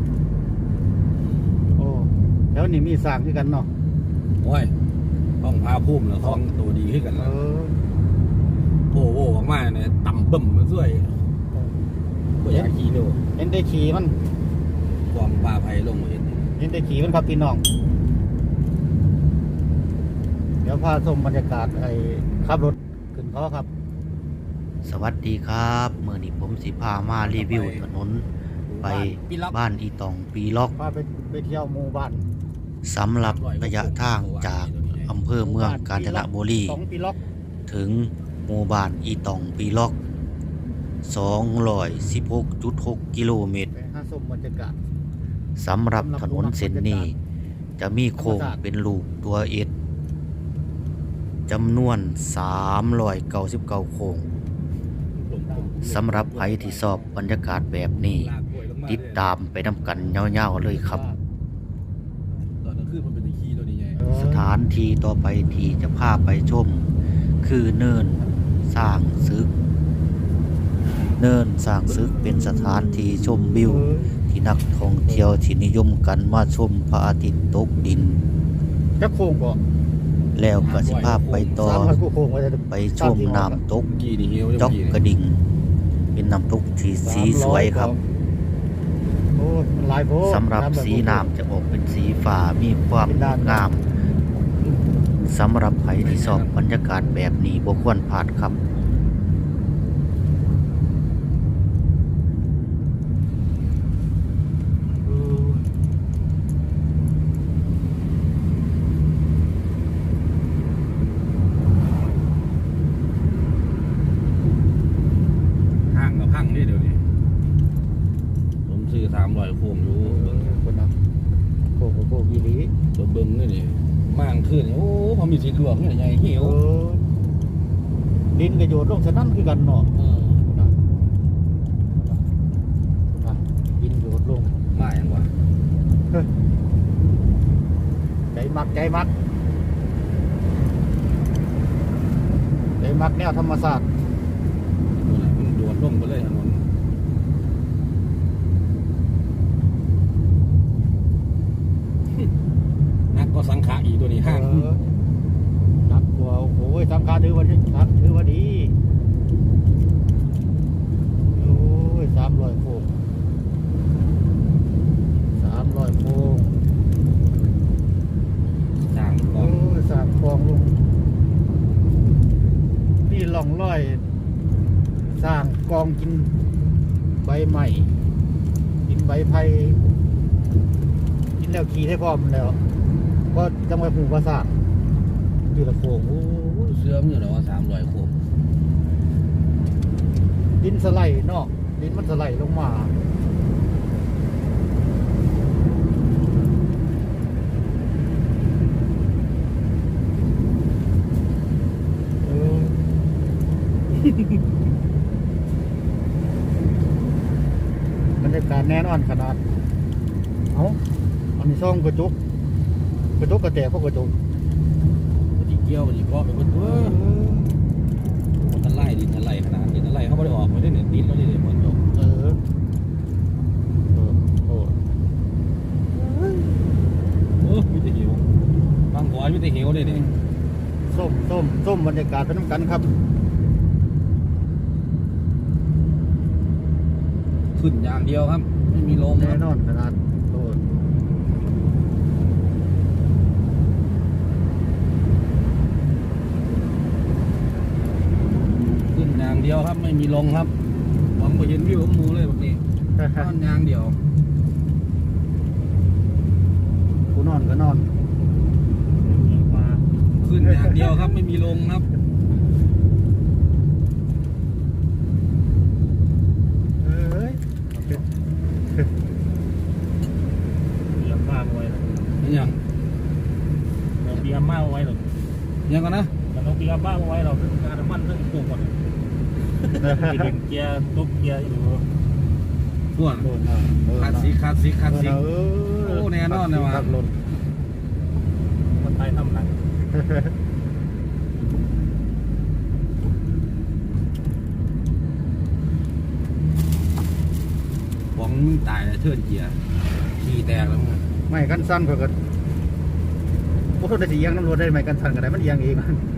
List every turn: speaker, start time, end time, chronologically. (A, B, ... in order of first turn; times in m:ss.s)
0:01.7-0:03.7 A
0:04.4-0:04.7 B
0:05.4-0:07.4 B
0:07.2-0:07.8 A
0:08.9-0:11.3 B
0:12.4-0:13.2 B
0:13.4-0:14.2 A
0:15.1-0:16.4 B
0:16.6-0:17.6 A
0:20.6-0:23.7 A
0:24.8-0:28.3 C
0:27.1-0:27.9 B
0:28.7-0:29.6 B
0:28.8-0:30.8 C
0:30.8-0:32.3 A
0:32.8-0:36.8 C
0:33.2-0:35.1 B
0:35.4-0:37.2 A
0:37.7-0:40.0 C
0:41.0-0:43.7 C
0:43.7-0:44.8 A
0:45.6-0:47.2 C
0:45.9-0:47.1 A
0:47.8-0:49.7 C
0:48.2-0:48.6 A
0:51.5-0:54.3 C
0:55.1-0:57.0 B
0:55.8-0:58.3 C
0:58.0-0:59.3 B
0:58.9-1:01.0 C
1:00.2-1:01.2 A
1:02.6-1:04.0 B
1:04.0-1:04.5 A
1:04.1-1:06.9 C
1:07.4-1:09.5 C
1:11.2-1:18.2 C
1:13.6-1:14.2 A
1:19.0-1:19.6 A
1:20.4-1:22.0 C
1:20.6-1:21.6 B
1:21.6-1:23.6 A
1:22.7-1:23.9 C
1:23.9-1:25.0 B
1:24.6-1:25.4 C
1:26.1-1:28.0 C
1:27.0-1:28.0 A
1:29.3-1:31.3 A
1:30.2-1:33.9 C
1:33.1-1:33.7 A
1:35.2-1:38.6 C
1:36.0-1:36.6 B
1:37.0-1:37.3 A
1:45.0-1:45.6 A
1:55.9-1:57.0 B
1:58.7-2:00.6 B
2:00.0-2:01.0 A
2:01.8-2:02.7 A
2:02.9-2:06.6 B
2:06.3-2:07.0 A
2:08.3-2:09.9 A
2:09.9-2:10.5 B
2:10.5-2:10.8 A
2:11.9-2:12.2 A
2:13.1-2:14.6 A
2:14.7-2:15.3 B
2:18.3-2:19.1 A
2:22.8-2:23.9 A
2:25.0-2:26.7 B
2:33.1-2:34.7 B
2:34.2-2:34.8 A
2:35.8-2:38.8 A
2:41.3-2:43.0 A
2:45.4-2:46.6 A
2:48.8-2:49.6 B
2:49.4-2:50.9 A
2:53.0-2:54.0 A
2:55.2-2:56.3 A
2:57.2-2:57.9 A
2:58.9-2:59.8 A
3:01.4-3:02.6 A
3:03.3-3:04.6 A
3:05.4-3:06.7 A
3:06.6-3:08.2 B
3:10.6-3:13.0 A
3:22.2-3:22.8 A
3:28.2-3:29.4 A
3:30.5-3:30.8 A
3:31.4-3:32.2 A
3:33.2-3:34.1 A
3:35.4-3:37.0 B
3:36.6-3:37.6 A
3:38.4-3:41.8 B
3:41.6-3:42.4 A
3:43.9-3:44.8 A
3:46.0-3:46.5 A
3:47.4-3:48.2 B
3:48.9-3:50.1 B
3:49.8-3:50.2 A
3:50.9-3:52.9 A
3:57.6-3:59.4 B
3:59.2-4:00.6 A
4:08.8-4:10.5 B
4:11.2-4:14.0 B
4:13.0-4:13.3 A
4:17.1-4:17.9 A
4:19.0-4:19.8 A
4:20.2-4:21.9 B
4:20.4-4:21.2 A
4:26.8-4:28.0 A
4:30.9-4:32.0 D
4:32.2-4:32.6 B
4:34.0-4:35.0 D
4:35.7-4:36.1 B
4:36.3-4:38.8 D
4:39.8-4:40.3 A
4:39.8-4:41.9 D
4:43.0-4:43.3 B
4:43.2-4:44.4 A
4:43.9-4:45.2 B
4:44.9-4:47.1 A
4:45.8-4:47.0 B
4:48.7-4:49.6 D
4:49.9-4:50.3 A
4:58.2-4:59.6 B
5:00.2-5:01.1 B
5:01.3-5:02.2 A
5:03.8-5:06.0 A